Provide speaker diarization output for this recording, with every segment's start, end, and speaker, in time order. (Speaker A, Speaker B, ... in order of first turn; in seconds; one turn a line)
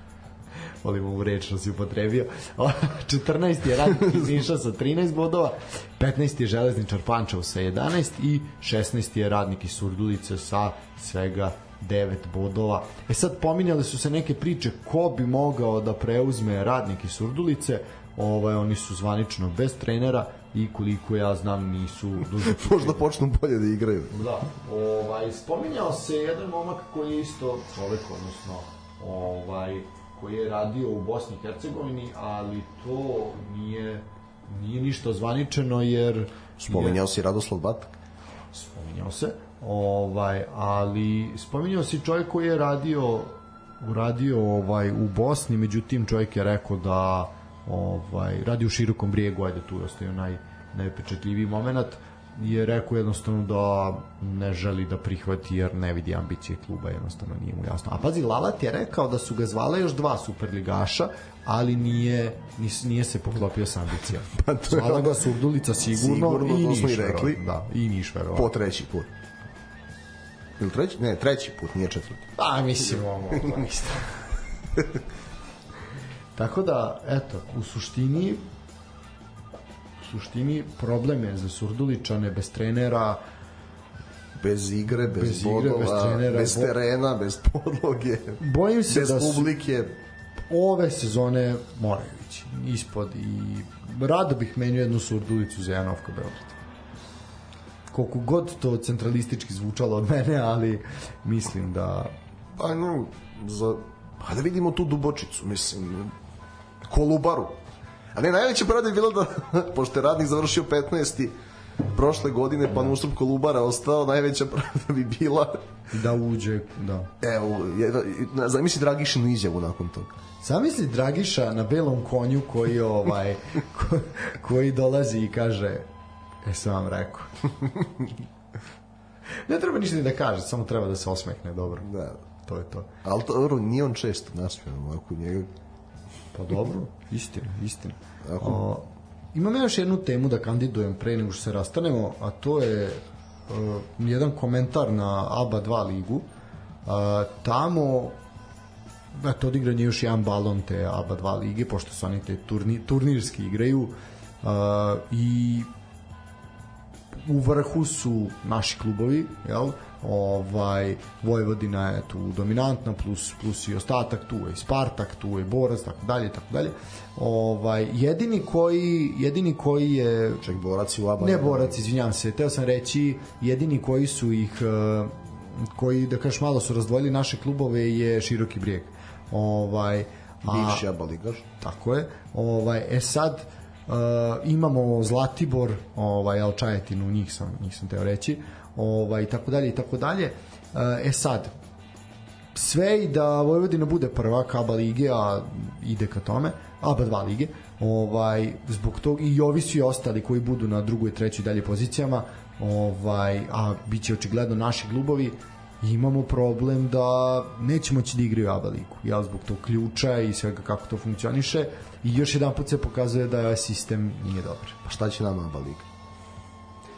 Speaker A: 0.8-23.1
Speaker B: 22.4-24.1
Speaker A: 24.1-37.0
Speaker B: 36.6-37.9
Speaker A: 38.5-68.5
Speaker B: 64.3-65.2
Speaker B: 65.9-67.4
Speaker B: 68.3-69.1
Speaker B: 70.6-72.2
Speaker A: 72.3-74.1
Speaker A: 76.3-78.4
Speaker A: 80.0-83.2
Speaker B: 84.4-89.9
Speaker A: 85.1-86.7
Speaker A: 88.4-89.6
Speaker A: 90.5-96.5
Speaker A: 97.9-102.1
Speaker B: 102.6-106.1
Speaker B: 106.9-107.6
Speaker B: 108.1-111.3
Speaker B: 111.9-115.6
Speaker A: 115.9-117.1
Speaker B: 117.2-120.1
Speaker A: 120.4-125.9
Speaker A: 126.4-127.3
Speaker A: 129.5-131.9
Speaker B: 131.8-132.2
Speaker A: 132.4-132.9
Speaker B: 133.0-135.5
Speaker A: 136.3-146.2
Speaker B: 138.2-138.6
Speaker A: 146.8-148.2
Speaker A: 149.1-155.7
Speaker A: 157.2-170.5
Speaker B: 170.4-171.8
Speaker A: 171.2-180.8
Speaker B: 180.5-181.5
Speaker A: 181.6-191.5
Speaker A: 192.5-214.8
Speaker B: 214.8-215.8